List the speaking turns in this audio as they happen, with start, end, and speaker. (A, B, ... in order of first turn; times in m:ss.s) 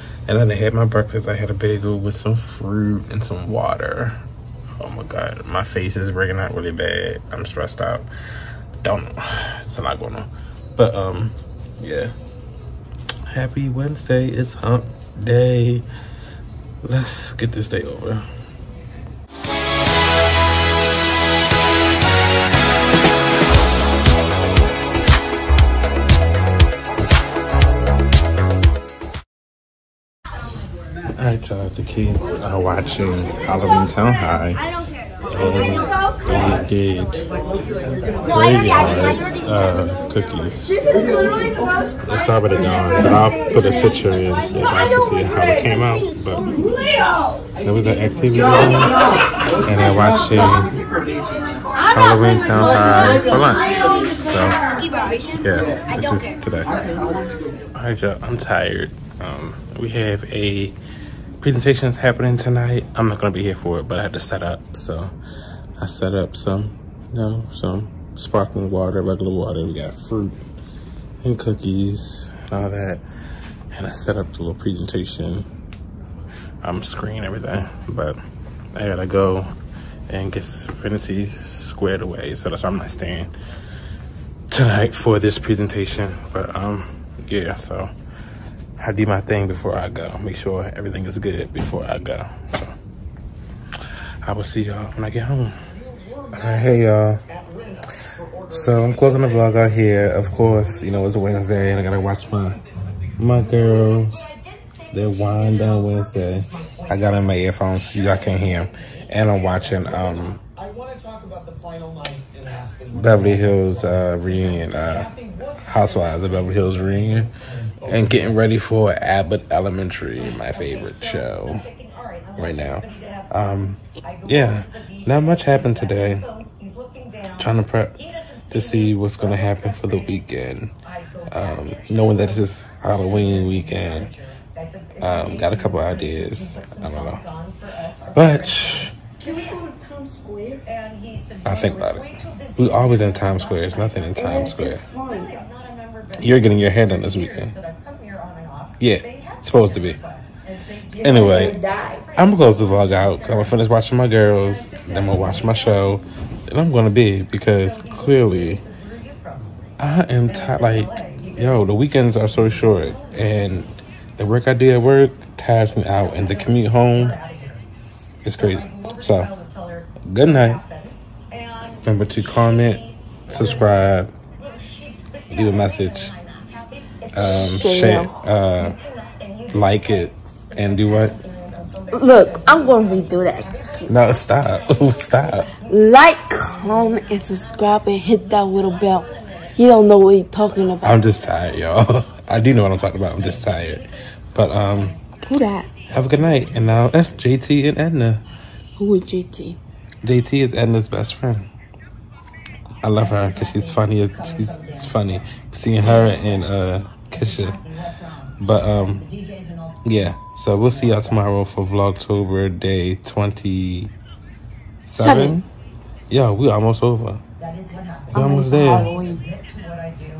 0:00.3-0:04.2 A
0:04.8-0:08.1 A
0:08.8-0:12.1 A
0:13.3-0:15.8 A
0:16.8-0:18.3 A
0:31.2-0:34.6 A
0:35.3-0:37.2 A
0:38.2-0:41.0 A
0:42.1-0:46.5 A
0:47.6-0:48.9 A
0:49.7-0:50.7 A
0:51.8-0:54.6 A
0:55.4-0:56.7 A
0:57.7-1:00.8 A
1:01.4-1:05.1 A
1:05.8-1:10.4 A
1:11.2-1:13.0 A
1:13.7-1:15.5 A
1:16.6-1:18.2 A
1:18.7-1:19.5 A
1:20.1-1:23.3 A
1:24.5-1:27.9 A
1:28.8-1:32.7 A
1:34.2-1:35.6 A
1:36.3-1:37.2 A
1:38.5-1:42.6 A
1:43.2-1:44.3 A
1:44.9-1:50.4 A
1:52.9-1:57.3 A
1:57.8-2:01.7 A
2:02.4-2:06.3 A
2:07.4-2:10.7 A
2:11.3-2:14.1 A
2:15.0-2:17.2 A
2:18.2-2:19.0 A
2:19.2-2:20.6 B
2:21.4-2:24.8 A
2:24.2-2:25.4 B
2:26.2-2:27.6 A
2:28.8-2:30.0 A
2:31.0-2:31.6 A
2:31.1-2:32.0 B
2:32.2-2:38.6 A
2:39.8-2:47.2 A
2:48.2-2:49.3 A
2:50.1-2:50.6 A
2:51.8-2:54.1 A
2:55.3-2:56.1 A
2:57.1-2:58.8 A
2:57.6-2:58.2 B
2:59.5-3:01.2 A
3:01.9-3:03.9 B
3:03.9-3:05.5 A
3:05.7-3:11.0 B
3:10.8-3:15.0 A
3:15.3-3:15.7 B
3:15.9-3:18.2 A
3:18.8-3:19.6 B
3:20.0-3:21.5 A
3:22.8-3:27.6 A
3:28.4-3:29.1 A
3:29.8-3:33.9 A
3:34.8-3:35.5 A
3:35.0-3:35.4 B
3:36.1-3:37.2 A
3:38.1-3:38.9 A
3:38.1-3:39.2 B